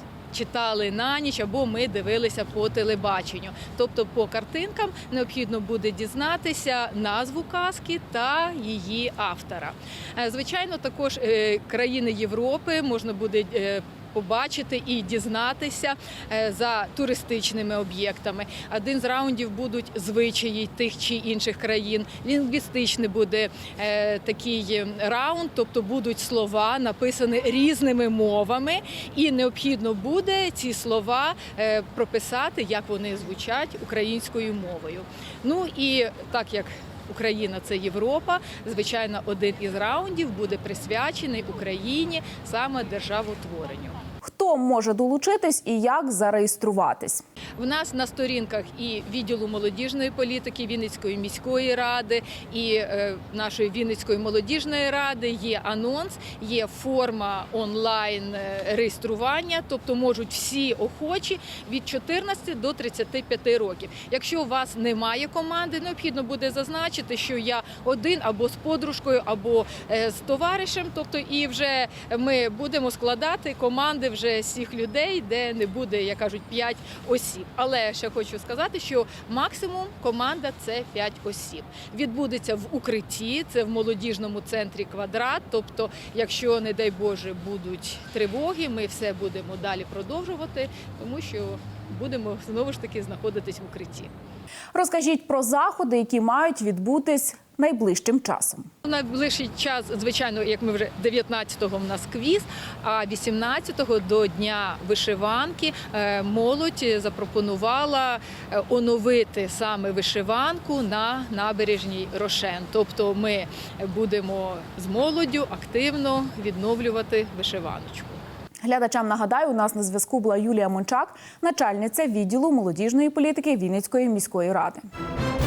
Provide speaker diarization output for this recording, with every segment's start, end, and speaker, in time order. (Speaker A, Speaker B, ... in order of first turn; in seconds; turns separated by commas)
Speaker A: 0.3-44.0, Speaker B: 44.2-47.2, Speaker A: 47.6-94.1, Speaker B: 94.8-98.7, Speaker A: 98.8-118.2, Speaker B: 118.7-124.8